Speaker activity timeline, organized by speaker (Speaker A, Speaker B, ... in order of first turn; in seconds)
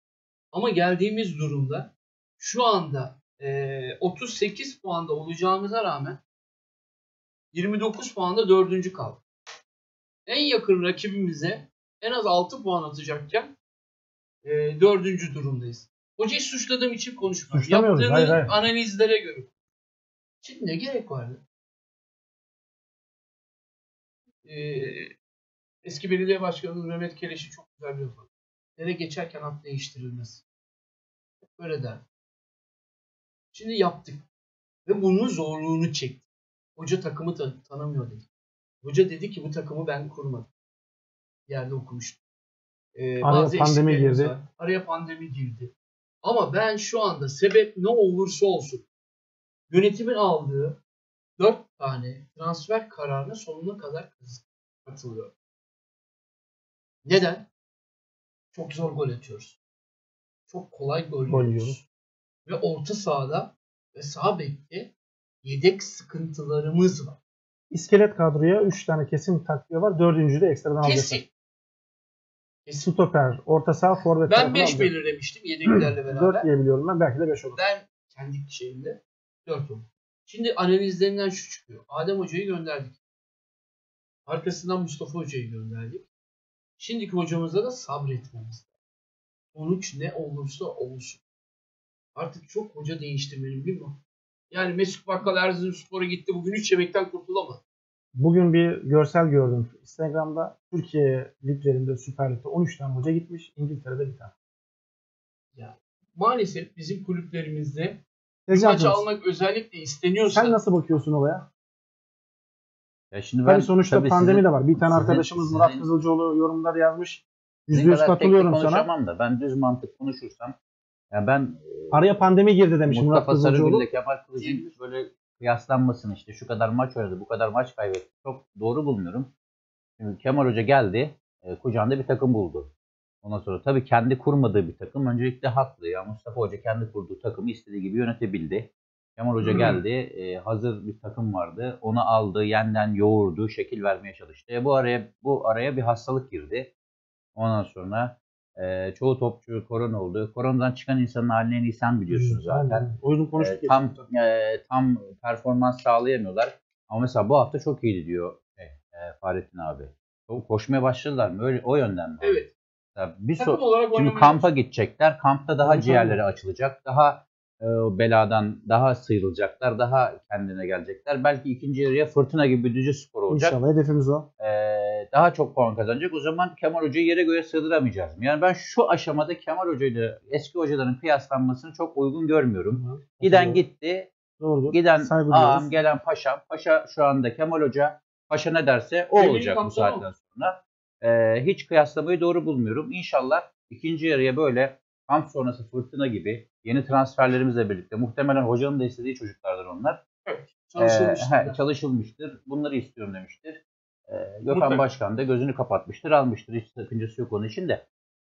Speaker A: 0.5-6.2, 7.5-9.2, 10.2-13.5, 14.4-19.5, 20.4-21.4, 24.4-25.1, 25.8-30.4, 31.4-32.0, 33.5-34.2, 34.9-36.2, 36.8-38.3, 38.8-40.5, 41.5-42.2, 42.9-45.7, 46.2-48.8, 49.7-50.8, 51.4-55.3, 57.0-57.5, 58.5-59.6, 60.5-61.8, 62.5-67.2, 70.8-71.3, 74.3-76.5, 77.5-83.0, 84.2-86.1, 86.8-88.7, 89.5-91.2, 92.1-94.0, 94.5-97.6, 105.5-110.6, 124.4-124.7, 162.2-162.5, 163.4-164.5, 189.2-190.1, 200.2-201.6, 204.5-204.8
Speaker B: 17.5-18.5, 43.2-44.3, 61.3-61.8, 67.7-71.2, 72.8-74.9, 76.0-77.6, 98.1-104.3, 108.5-109.0, 110.3-111.5, 113.4-118.9, 121.9-123.8, 152.1-154.1, 165.6-166.2, 173.3-174.3, 182.7-183.6, 184.4-185.7
Speaker C: 113.1-115.8, 117.7-120.5, 121.1-122.1, 122.9-129.3, 130.0-132.7, 133.2-146.7, 147.3-173.6, 174.4-184.1, 184.7-200.0, 200.8-207.8